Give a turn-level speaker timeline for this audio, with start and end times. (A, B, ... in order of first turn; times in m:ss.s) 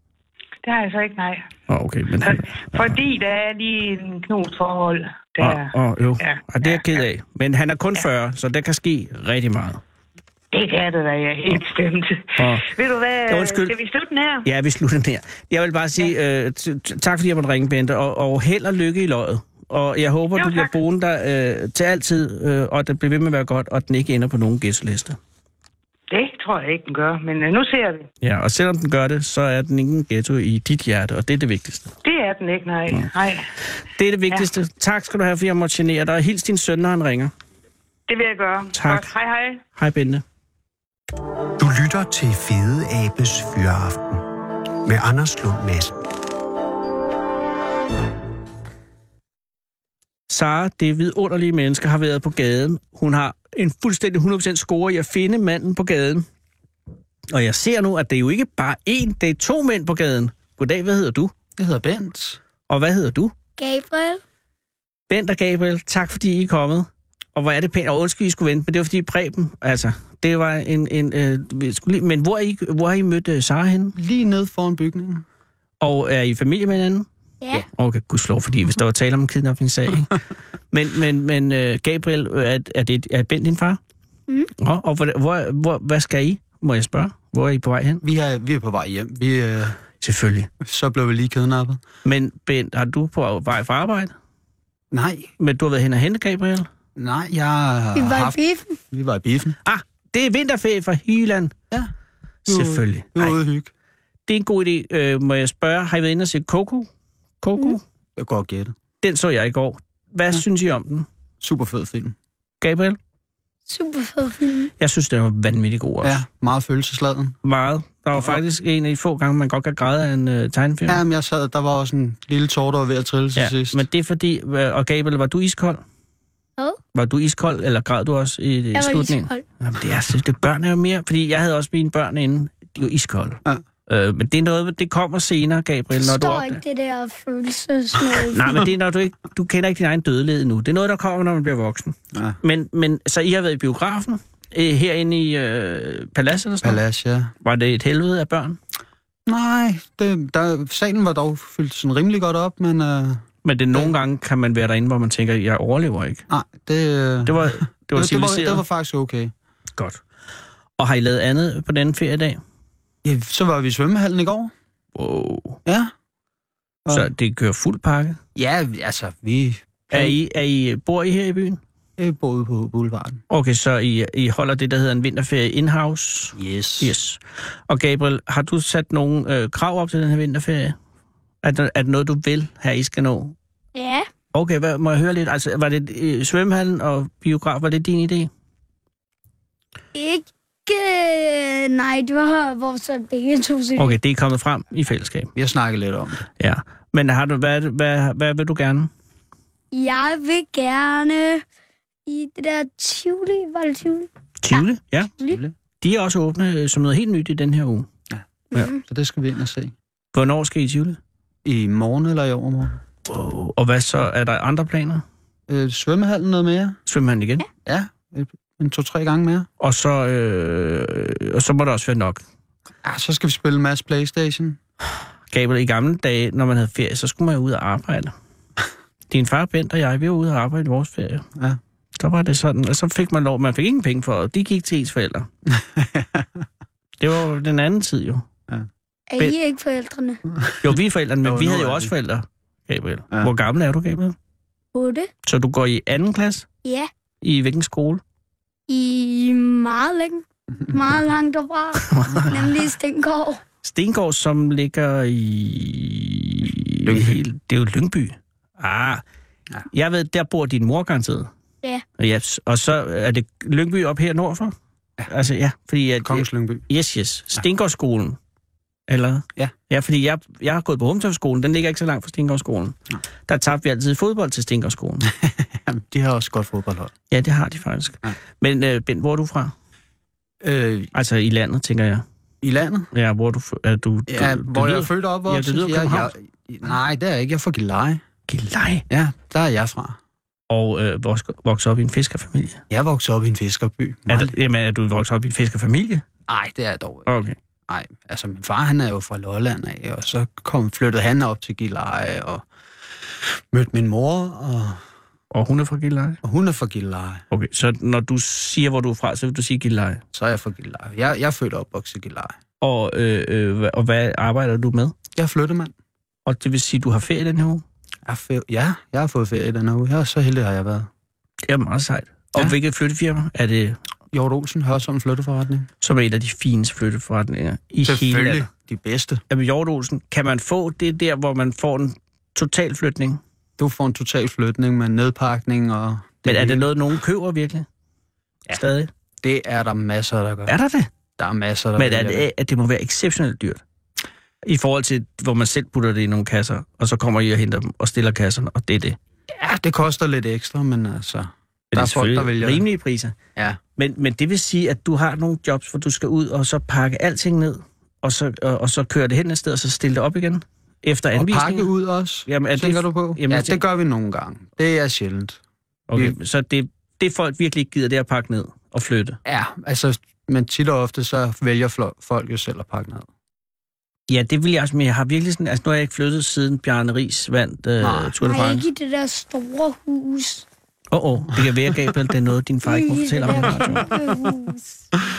0:00.6-0:01.5 A
0:01.7-0:03.0 B
0:02.2-0:07.0 A
0:05.4-0:09.8 B
0:10.5-0:14.5 A
0:12.4-0:12.7 B
0:13.3-0:13.7 B
0:14.4-0:25.2 B
0:20.4-0:20.7 A
0:26.1-0:28.1 A
0:28.2-0:31.9 B
0:32.0-0:33.5 A
0:34.0-0:37.3 B
0:38.1-0:39.6 A
0:38.8-0:39.1 B
0:39.8-0:40.2 B
0:41.6-0:44.2 C
0:44.8-0:46.0 C
0:50.3-0:56.3 B
0:57.3-1:01.3 B
1:01.6-1:02.4 D
1:02.7-1:03.3 B
1:03.6-1:04.2 E
1:05.1-1:14.0 B
1:14.0-1:15.2 D
1:15.8-1:17.1 B
1:17.7-1:20.2 B
1:20.7-1:23.8 B
1:24.6-1:28.0 B
1:28.0-1:29.8 D
1:30.0-1:30.5 B
1:30.6-1:31.8 D
1:32.0-1:34.1 B
1:34.9-1:35.3 D
1:35.4-1:36.7 B
1:37.0-1:38.4 D
1:38.0-1:38.8 E
1:38.9-1:39.6 D
1:39.6-1:41.5 B
1:42.5-1:43.4 B
1:42.5-1:43.7 D
1:44.3-1:46.9 B
1:47.4-1:47.8 B
1:48.2-1:48.8 D
1:49.0-1:51.1 B
1:51.4-1:52.2 D
1:52.6-1:53.0 B
1:53.7-1:54.7 E
1:54.8-1:56.2 B
1:56.0-1:57.4 D
1:57.4-2:01.0 B
2:00.9-2:03.8 D
2:03.4-2:05.8 B
2:06.9-2:16.6 B
2:08.8-2:09.4 E
2:16.0-2:18.7 E
2:18.3-2:26.8 B
2:22.1-2:22.4 D
2:26.6-2:27.3 D
2:27.4-2:28.6 B
2:29.3-2:33.9 D
2:33.4-2:36.2 B
2:36.3-2:39.3 D
2:37.3-2:38.6 B
2:40.8-2:42.4 B
2:43.0-2:44.5 D
2:45.0-2:45.6 B
2:45.7-2:45.9 D
2:46.9-2:48.2 B
2:48.4-2:50.2 D
2:49.9-2:51.6 B
2:52.0-2:53.2 D
2:53.3-3:00.8 B
2:56.4-2:57.0 D
3:01.4-3:03.4 B
3:03.8-3:04.1 E
3:04.3-3:08.3 B
3:10.0-3:14.0 E
3:13.8-3:15.3 B
3:15.4-3:16.3 D
3:16.4-3:18.9 B
3:19.7-3:21.4 E
3:22.1-3:24.6 E
3:24.4-3:25.1 B
3:25.3-3:25.6 D
3:25.8-3:27.9 B
3:28.1-3:29.7 D
3:28.5-3:28.8 E
3:30.1-3:31.0 B
3:31.4-3:32.8 D
3:33.1-3:35.0 B
3:35.5-3:36.8 D
3:36.9-3:37.5 B
3:37.6-3:39.5 D
3:39.6-3:42.2 B
3:42.8-3:44.6 D
3:45.3-3:48.1 B
3:49.1-3:51.3 B
3:52.0-3:55.3 B
3:55.5-3:56.4 D
3:57.0-3:58.3 B
3:59.1-4:00.2 E
4:00.6-4:04.2 B
4:01.2-4:01.9 D
4:04.7-4:05.1 E
4:05.2-4:06.5 B
4:06.6-4:06.9 E
4:07.2-4:08.0 B
4:08.7-4:13.4 E
4:11.8-4:12.6 B
4:13.6-4:19.0 B
4:16.8-4:17.2 D
4:19.7-4:21.3 B
4:22.0-4:24.6 B
4:25.1-4:28.2 B
4:26.0-4:26.7 D
4:28.9-4:32.8 B
4:33.3-4:35.1 B
4:35.2-4:36.9 D
4:37.1-4:39.5 B
4:40.4-4:40.9 D
4:40.9-4:42.0 B
4:42.4-4:42.9 D
4:42.9-4:46.1 B
4:44.1-4:48.0 D
4:48.3-4:48.8 B
4:48.9-4:50.0 D
4:50.5-4:52.6 B
4:52.7-4:54.3 D
4:54.1-4:56.0 B
4:56.3-4:57.1 D
4:57.1-4:57.4 B
4:57.7-5:02.4 D
5:03.3-5:04.8 D
5:05.3-5:06.2 B
5:06.2-5:07.2 D
5:07.3-5:10.0 B
5:10.1-5:12.4 D
5:12.6-5:14.9 B
5:15.2-5:15.7 D
5:16.3-5:17.6 B
5:18.1-5:20.9 D
5:21.5-5:23.8 B
5:24.1-5:25.7 D
5:25.8-5:28.5 B
5:27.8-5:29.2 D
5:29.3-5:33.2 B
5:33.6-5:36.7 D
5:36.3-5:37.7 B
5:38.5-5:38.9 B
5:39.2-5:40.5 D
5:40.5-5:40.9 B
5:41.2-5:42.3 D
5:41.8-5:43.6 B
5:44.4-5:49.0 B
5:49.4-5:52.6 D
5:51.7-5:53.2 B
5:53.8-6:01.7 B
6:01.1-6:05.4 D
6:02.3-6:03.6 B
6:05.9-6:09.2 B
6:09.2-6:13.1 D
6:14.1-6:18.6 B
6:17.8-6:18.2 D
6:18.2-6:20.5 E
6:20.9-6:24.0 B
6:22.7-6:24.8 E